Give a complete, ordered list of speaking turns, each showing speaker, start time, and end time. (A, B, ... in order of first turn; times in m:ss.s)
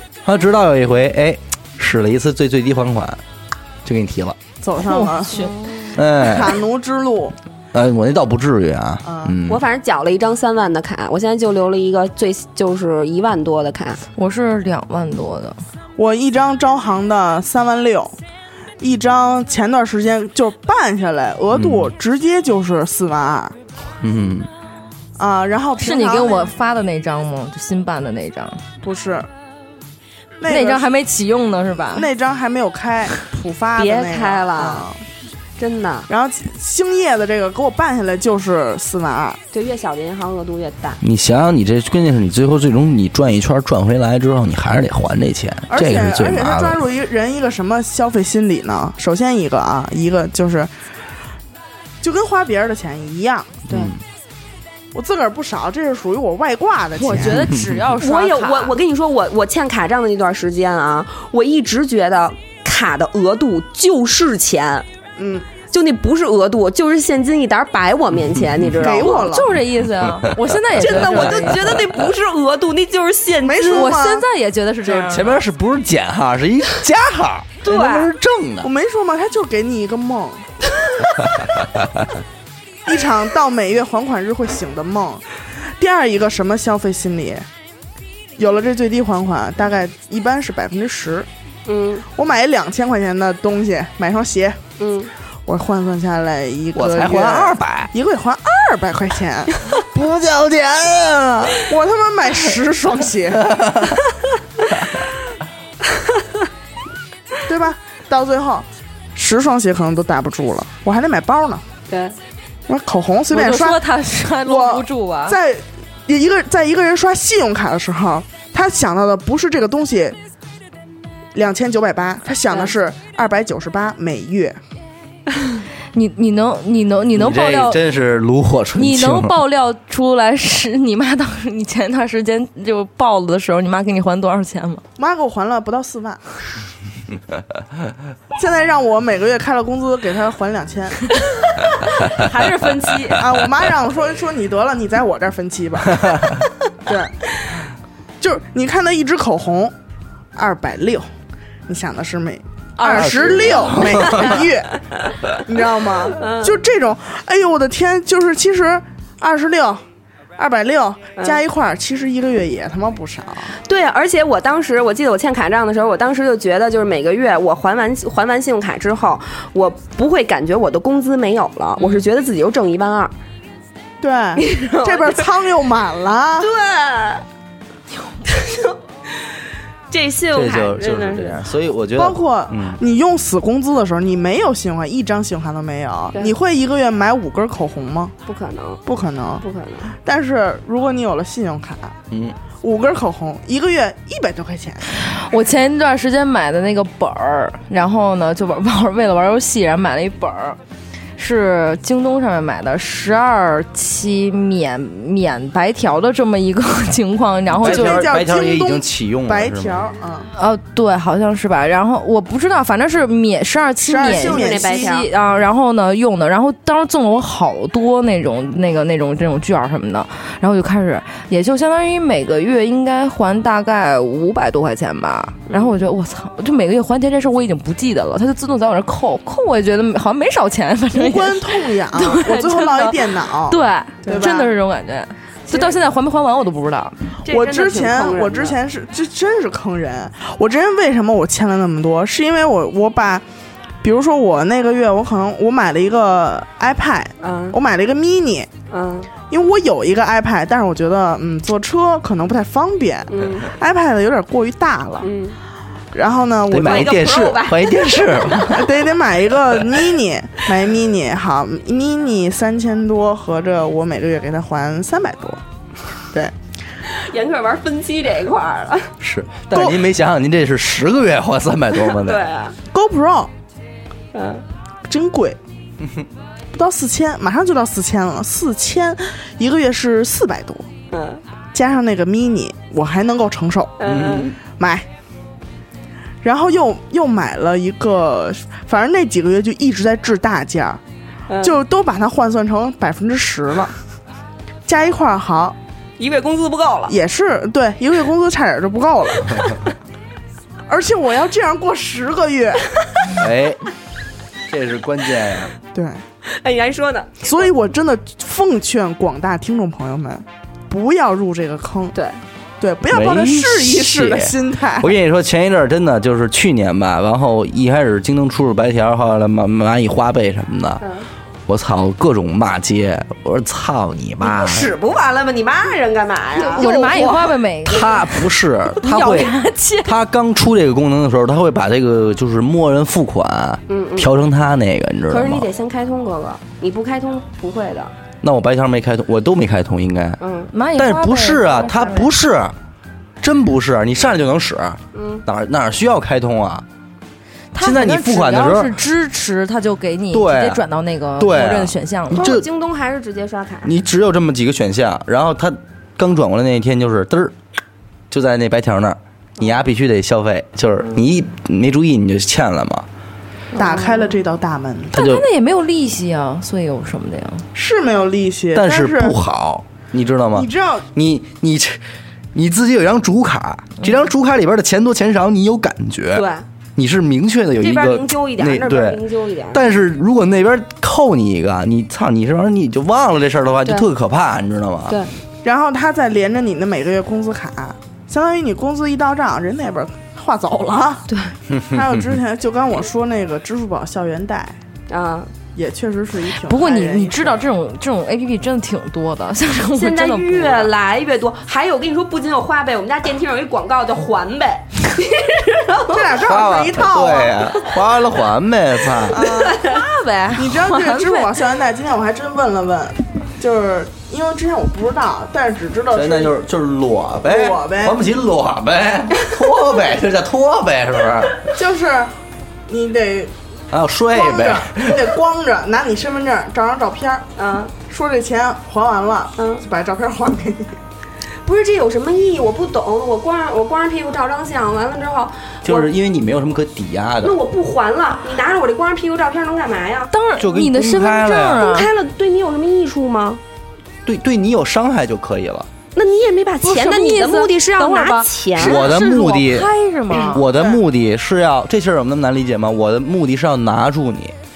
0:00.2-0:03.2 A
0:03.8-0:04.4 A
0:04.6-0:05.3 B
0:04.8-0:05.6 C
0:05.4-0:05.9 D
0:06.0-0:06.6 A
0:06.2-0:07.4 B
0:07.7-0:09.6 A
0:09.0-0:09.4 B
0:09.5-0:14.0 D
0:14.2-0:15.6 C
0:16.0-0:18.1 B
0:18.8-0:23.6 B
0:21.5-0:21.9 A
0:24.0-0:24.5 A
0:25.2-0:26.5 B
0:25.8-0:28.6 C
0:28.8-0:29.3 B
0:30.4-0:30.9 B
0:30.5-0:32.1 C
0:31.9-0:35.0 B
0:33.8-0:34.9 D
0:35.6-0:36.1 D
0:36.1-0:39.4 B
0:39.5-0:41.0 D
0:41.0-0:46.8 A
0:45.7-0:50.7 B
0:52.0-0:53.6 B
0:53.7-0:54.0 A
0:54.9-0:57.5 B
0:57.0-0:58.8 C
0:57.3-0:57.6 A
0:58.0-1:04.8 D
1:05.2-1:05.5 B
1:05.7-1:09.4 D
1:08.8-1:09.6 B
1:09.2-1:11.8 C
1:10.8-1:13.9 D
1:10.8-1:11.8 A
1:13.4-1:14.2 B
1:13.6-1:15.4 C
1:14.8-1:18.7 A
1:17.6-1:18.1 D
1:18.6-1:20.5 B
1:22.8-1:27.5 B
1:28.4-1:31.3 B
1:31.6-1:32.0 D
1:32.1-1:34.6 B
1:34.8-1:35.1 D
1:35.4-1:39.5 B
1:36.7-1:37.9 A
1:39.8-1:41.7 A
1:41.6-1:43.6 B
1:43.4-1:44.0 A
1:47.4-1:51.6 B
1:51.9-1:52.2 D
1:52.7-1:53.8 B
1:53.3-1:55.4 C
1:54.4-2:00.2 B
2:01.3-2:04.6 B
2:05.9-2:07.8 C
2:07.1-2:09.4 A
2:08.8-2:14.8 C
2:15.0-2:16.2 B
2:18.3-2:21.1 B
2:22.2-2:23.2 C
2:23.1-2:26.3 B
2:26.8-2:27.3 B
2:28.2-2:29.7 B
2:30.3-2:31.1 B
2:31.7-2:34.7 B
2:32.8-2:33.8 C
2:32.9-2:34.4 A
2:32.9-2:34.5 D
2:35.4-2:39.8 B
2:36.1-2:36.6 D
2:40.4-2:43.6 B
2:43.6-2:53.1 D
2:54.0-2:56.5 B
2:54.4-2:55.2 D
2:56.4-2:57.2 D
2:58.2-2:59.2 D
2:59.9-3:01.4 D
3:00.3-3:02.8 A
3:01.9-3:08.1 B
3:08.2-3:08.8 D
3:08.8-3:09.4 B
3:09.4-3:09.9 D
3:10.0-3:12.0 B
3:12.1-3:12.4 A
3:12.6-3:14.9 B
3:14.9-3:20.6 C
3:21.2-3:28.1 C
3:27.6-3:29.8 A
3:27.6-3:30.3 B
3:30.3-3:56.9 C
3:33.8-3:35.0 B
3:34.0-3:35.1 D
3:45.5-3:45.7 D
3:50.9-3:54.5 B
3:54.0-3:54.4 D
3:55.5-3:55.7 D
3:57.2-3:58.6 D
3:57.3-4:03.2 B
4:03.8-4:08.5 B
4:07.2-4:07.6 D
4:08.7-4:09.1 D
4:09.3-4:15.1 B
4:13.1-4:13.5 D
4:15.0-4:15.4 D
4:15.9-4:17.1 B
4:16.5-4:18.7 A
4:16.6-4:18.5 D
4:18.4-4:25.4 B
4:26.9-4:28.9 D
4:29.0-4:32.2 A
4:29.5-4:29.8 B
4:31.8-4:32.6 D
4:32.7-4:33.3 B
4:34.1-4:34.4 D
4:34.9-4:35.4 B
4:36.5-4:40.7 B
4:40.9-4:41.2 D
4:41.5-4:43.8 B
4:43.8-4:44.3 D
4:43.8-4:44.3 A
4:44.6-4:44.9 B
4:46.2-4:50.8 B
4:51.3-4:51.6 D
4:51.4-4:53.7 B
4:54.6-4:55.6 B
4:56.0-4:57.0 D
4:56.9-4:59.4 B
5:00.7-5:02.7 B
5:03.1-5:03.6 A
5:04.5-5:05.5 A
5:05.7-5:06.0 B
5:06.2-5:07.5 D
5:07.2-5:11.9 B
5:11.9-5:12.2 D
5:12.6-5:14.9 B
5:12.9-5:20.8 A
5:20.8-5:21.0 D
5:21.5-5:24.7 A
5:24.2-5:27.4 D
5:26.4-5:28.3 C
5:27.6-5:29.3 A
5:28.8-5:30.0 C
5:29.8-5:35.5 A
5:33.7-5:34.1 D
5:35.1-5:37.9 D
5:38.2-5:40.2 A
5:40.2-5:40.5 D
5:40.5-5:42.1 C
5:40.7-5:42.5 A
5:43.2-5:46.6 A
5:44.9-5:45.2 D
5:47.5-5:52.3 C
5:47.6-5:48.8 A
5:50.1-5:50.6 A
5:51.2-5:52.4 A
5:52.1-5:53.7 D
5:53.6-5:57.3 A
5:58.1-6:02.8 A
6:03.5-6:04.1 D
6:03.5-6:05.0 B
6:04.9-6:07.4 C
6:04.9-6:05.2 A
6:07.5-6:09.2 B
6:08.5-6:11.8 A
6:10.3-6:10.9 B
6:12.3-6:19.0 A
6:16.1-6:16.4 D
6:17.6-6:19.6 D
6:19.5-6:25.0 A
6:25.4-6:31.0 B
6:31.1-6:31.3 D
6:31.5-6:31.8 A
6:31.7-6:34.6 B
6:34.9-6:35.3 D
6:35.5-6:37.4 B
6:36.4-6:40.7 C
6:39.7-6:46.2 D
6:45.9-6:47.4 B
6:46.2-6:49.2 A
6:49.1-6:49.6 B
6:49.2-6:49.8 D
6:49.6-6:51.3 C
6:50.3-6:56.4 B
6:55.9-7:01.5 A
6:57.2-6:58.0 B
7:01.5-7:02.1 B
7:02.7-7:03.3 B
7:03.7-7:05.0 A
7:04.1-7:07.2 B
7:07.4-7:07.7 D
7:07.8-7:10.8 B
7:09.4-7:09.6 D
7:11.4-7:15.9 D
7:15.6-7:17.4 A
7:17.2-7:20.1 D
7:20.1-7:21.9 C
7:20.4-7:21.7 A
7:21.6-7:23.4 D
7:24.0-7:25.7 A
7:26.0-7:29.0 D
7:26.6-7:30.4 C
7:28.6-7:29.7 A
7:30.3-7:34.3 A
7:30.4-7:30.8 B